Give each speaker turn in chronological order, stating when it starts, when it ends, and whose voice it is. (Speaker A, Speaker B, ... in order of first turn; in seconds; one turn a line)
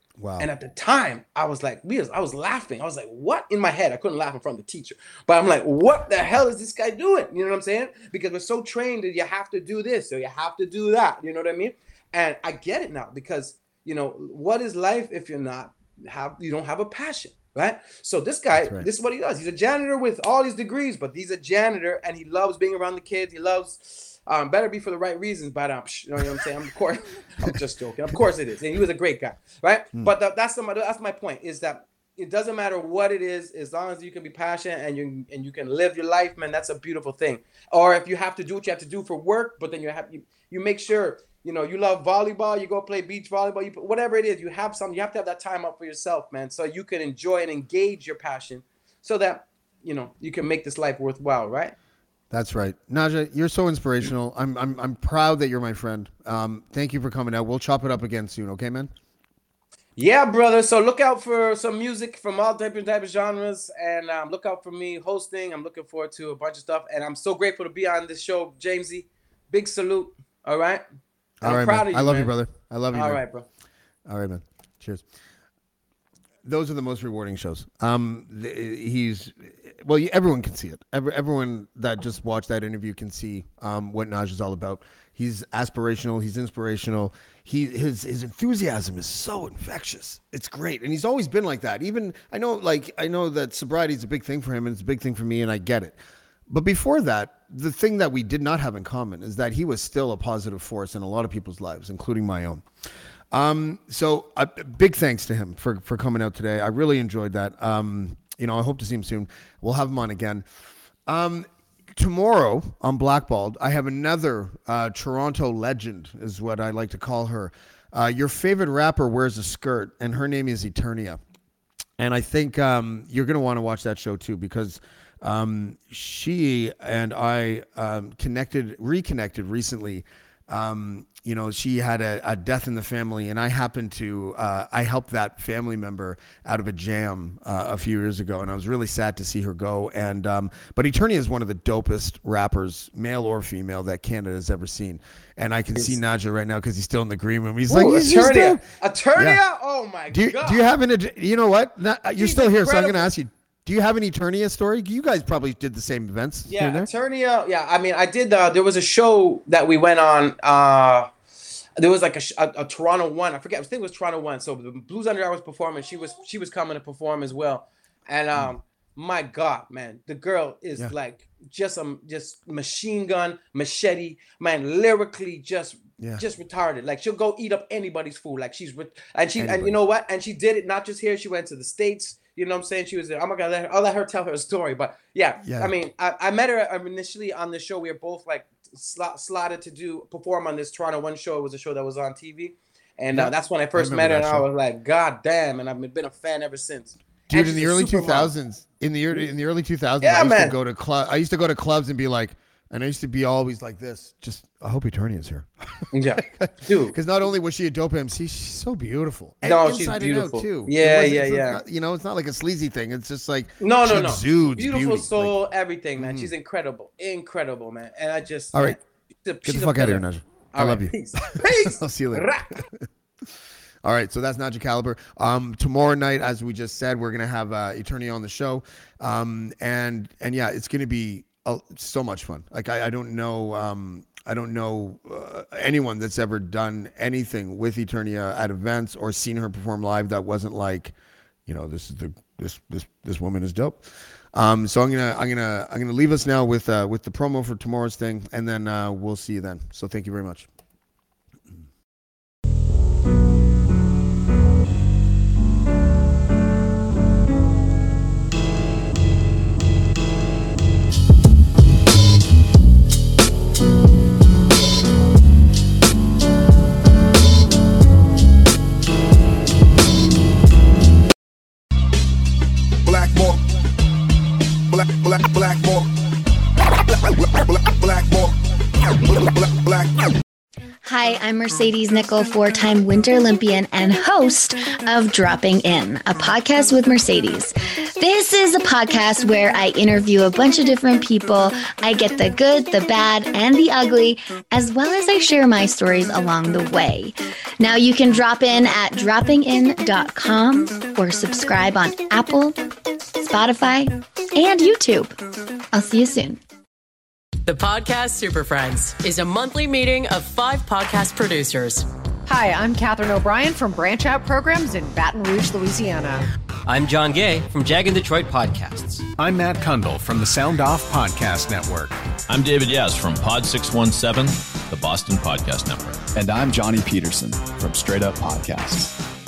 Speaker A: 0.2-0.5
Speaker B: 0.4-51.8
Speaker A: 18.6-18.9
Speaker A: 52.3-58.9
Speaker B: 60.0-70.8
Speaker A: 71.4-73.2
Speaker B: 71.4-72.3
Speaker B: 72.9-73.5
Speaker A: 74.1-75.0
Speaker A: 76.4-96.0
Speaker A: 96.5-102.6
Speaker A: 103.3-110.5
Speaker A: 111.1-121.2
Speaker A: 122.0-148.6
Speaker B: 147.7-150.6
Speaker A: 149.1-149.4
Speaker A: 150.1-156.9
Speaker B: 152.2-153.1
Speaker B: 156.5-161.1
Speaker B: 161.8-198.3
Speaker A: 176.0-176.2
Speaker A: 179.4-179.8
Speaker A: 185.4-185.7
Speaker A: 193.1-194.5
Speaker A: 197.3-215.4
Speaker B: 200.0-200.6
Speaker B: 205.9-206.9
Speaker B: 209.4-211.6
Speaker B: 213.6-222.7
Speaker A: 216.0-216.3
Speaker A: 219.4-222.8
Speaker A: 223.8-240.9
Speaker A: 241.5-250.5
Speaker C: 272.8-273.4
Speaker C: 274.7-275.9
Speaker C: 276.8-280.2
Speaker D: 280.8-302.6
Speaker D: 303.2-305.1
Speaker D: 305.7-306.4
Speaker E: 307.4-311.9
Speaker F: 312.3-316.2
Speaker G: 316.7-319.0
Speaker H: 319.2-321.9
Speaker I: 322.3-326.1
Speaker J: 326.1-328.9